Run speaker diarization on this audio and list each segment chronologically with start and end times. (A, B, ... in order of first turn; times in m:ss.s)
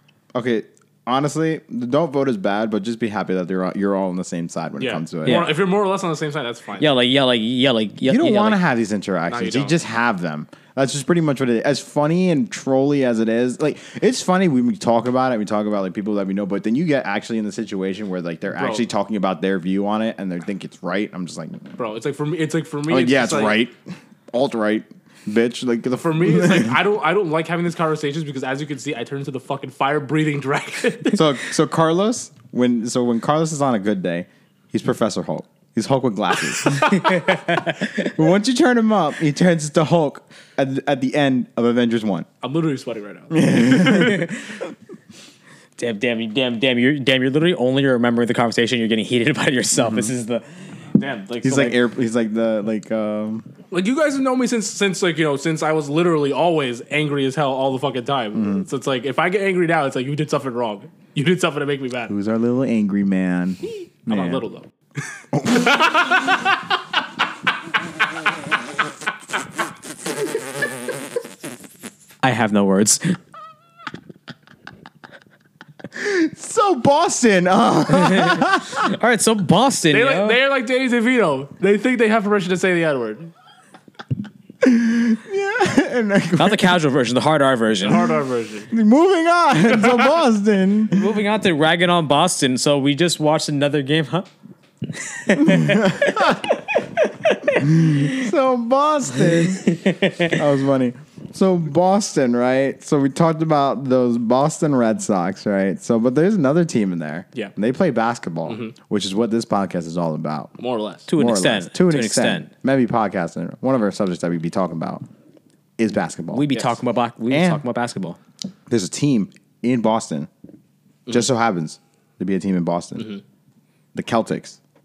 0:00.3-0:05.5 A
0:04.8-0:06.9 B
0:05.2-0:05.6 C
0:06.8-0:08.6 C
0:08.0-0:21.7 A
0:09.3-0:09.8 B
0:18.5-0:18.8 B
0:21.8-0:23.6 B
0:22.9-0:26.8 A
0:25.9-0:31.3 B
0:31.1-0:42.3 A
0:36.8-0:37.1 B
0:37.0-0:38.1 C
0:42.4-0:44.3 B
0:43.3-0:44.3 A
0:45.8-0:50.4 C
0:49.8-0:50.1 A
0:51.0-0:51.6 B
0:51.4-0:51.7 C
0:51.4-0:53.5 A
0:53.7-1:02.1 B
0:58.4-0:58.6 A
1:02.1-1:04.4 A
1:03.7-1:04.7 B
1:05.2-1:06.6 B
1:05.3-1:06.3 A
1:12.2-1:13.2 C
1:15.9-1:18.9 A
1:17.9-1:20.4 C
1:19.9-1:23.3 B
1:24.6-1:26.8 A
1:26.4-1:28.1 C
1:27.8-1:28.7 B
1:28.7-1:31.1 A
1:29.7-1:30.1 B
1:30.9-1:34.3 C
1:34.9-1:38.2 C
1:35.3-1:36.4 A
1:37.6-1:50.5 A
1:39.4-1:40.4 C
1:48.4-1:48.7 B
1:50.6-1:51.1 B
1:51.1-1:52.5 C
1:51.1-1:55.0 A
1:55.8-1:56.5 A
1:56.3-1:58.2 C
1:57.3-1:57.6 A
1:58.7-2:00.3 A
2:01.1-2:03.1 A
2:03.9-2:04.6 A